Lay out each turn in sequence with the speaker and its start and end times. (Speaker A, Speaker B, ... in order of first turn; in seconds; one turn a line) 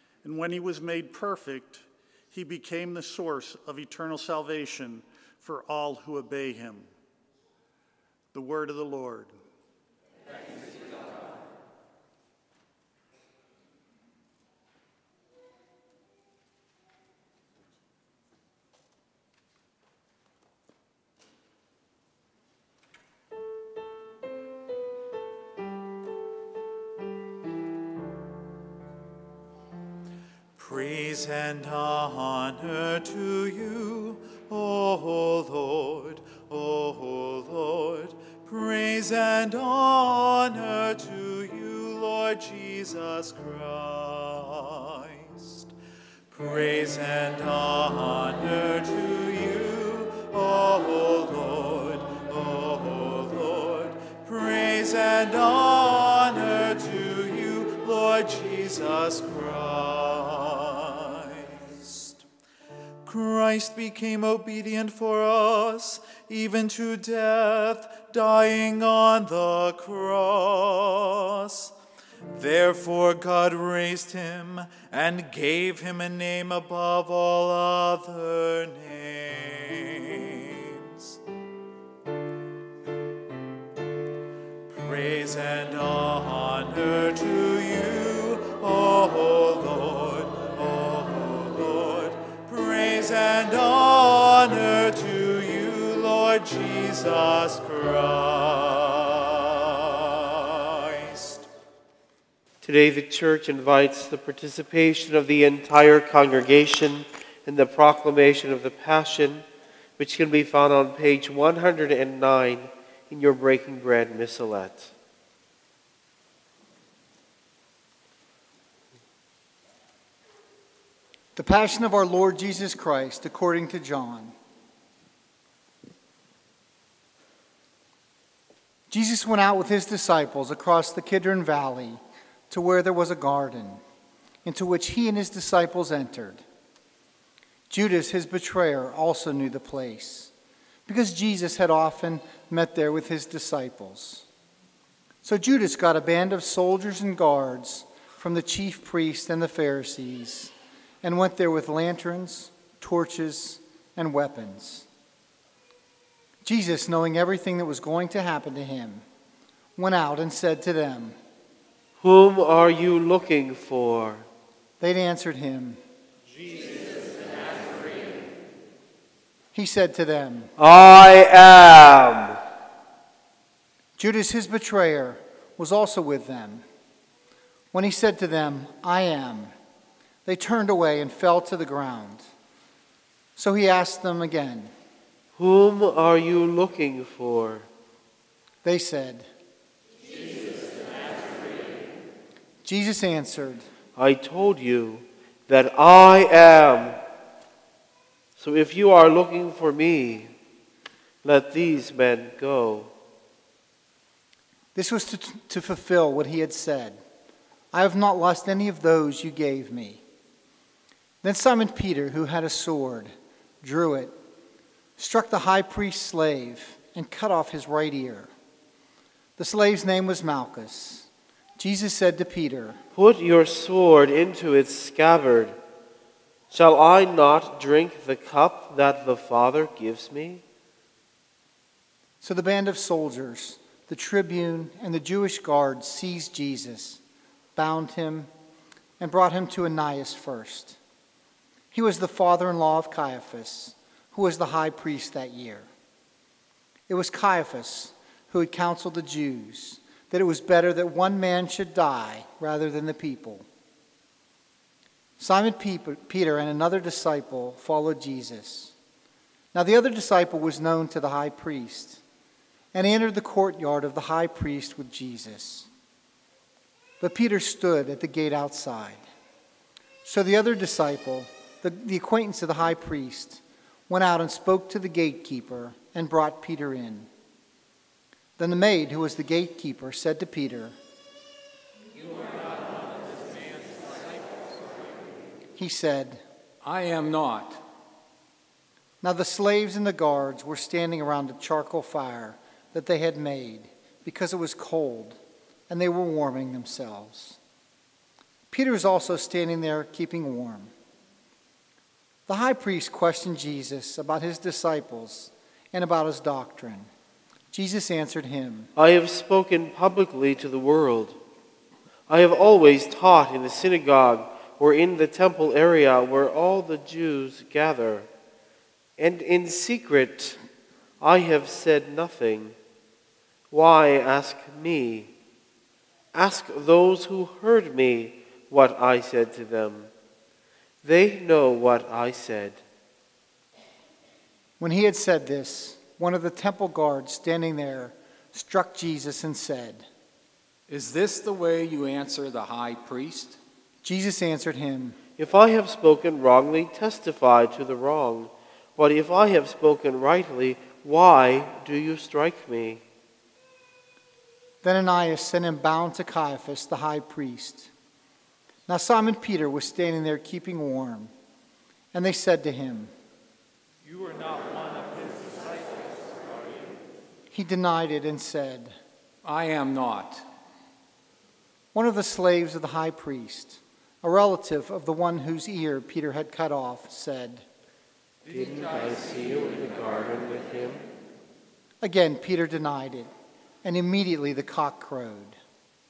Speaker A: 0.2-6.9
Speaker A: 8.3-9.4
Speaker B: 30.6-45.7
Speaker B: 46.3-62.2
Speaker B: 63.0-71.7
Speaker B: 72.3-81.2
Speaker B: 84.7-101.5
Speaker C: 102.6-109.5
Speaker C: 110.0-114.9
Speaker D: 121.4-124.3
Speaker D: 128.9-133.8
Speaker D: 134.4-136.4
Speaker D: 137.7-140.3
Speaker D: 140.9-144.3
Speaker D: 145.2-154.9
Speaker D: 156.4-159.1
Speaker D: 159.8-161.2
Speaker C: 162.0-164.3
Speaker D: 164.8-165.8
Speaker D: 169.5-170.5
Speaker C: 170.6-172.4
Speaker D: 174.0-176.7
Speaker D: 177.7-179.5
Speaker D: 180.2-182.3
Speaker D: 183.4-184.7
Speaker C: 185.4-187.7
Speaker D: 188.6-189.3
Speaker D: 192.6-193.7
Speaker C: 194.0-197.0
Speaker C: 198.4-200.3
Speaker C: 201.2-202.9
Speaker D: 204.8-207.0
Speaker D: 207.7-210.0
Speaker D: 211.2-214.2
Speaker D: 215.0-218.3
Speaker D: 219.4-222.8
Speaker C: 222.9-225.6
Speaker C: 226.5-230.4
Speaker D: 232.2-237.0
Speaker D: 237.6-238.3
Speaker D: 239.0-240.8
Speaker D: 241.7-245.7
Speaker D: 246.9-253.5
Speaker D: 255.2-258.8
Speaker D: 259.5-262.0
Speaker D: 262.7-265.7
Speaker D: 267.0-269.1
Speaker D: 270.0-277.1
Speaker D: 278.4-280.8
Speaker D: 285.6-286.2
Speaker E: 286.6-287.6
Speaker D: 289.0-297.4
Speaker D: 298.5-300.7
Speaker D: 302.3-306.9
Speaker D: 307.5-308.7
Speaker C: 308.8-311.2
Speaker C: 312.1-318.1
Speaker C: 319.0-320.4
Speaker C: 321.0-322.6
Speaker C: 323.5-325.1
Speaker C: 326.1-329.9
Speaker C: 330.8-332.6
Speaker D: 334.6-339.9
Speaker E: 340.7-343.4
Speaker D: 343.8-345.0
Speaker C: 345.2-352.8
Speaker D: 354.6-357.7
Speaker D: 358.7-361.1
Speaker D: 361.9-362.9
Speaker B: 363.8-366.8
Speaker D: 367.3-368.8
Speaker E: 369.2-370.2
Speaker D: 371.7-377.5
Speaker C: 378.3-380.9
Speaker D: 381.8-383.1
Speaker D: 383.6-385.4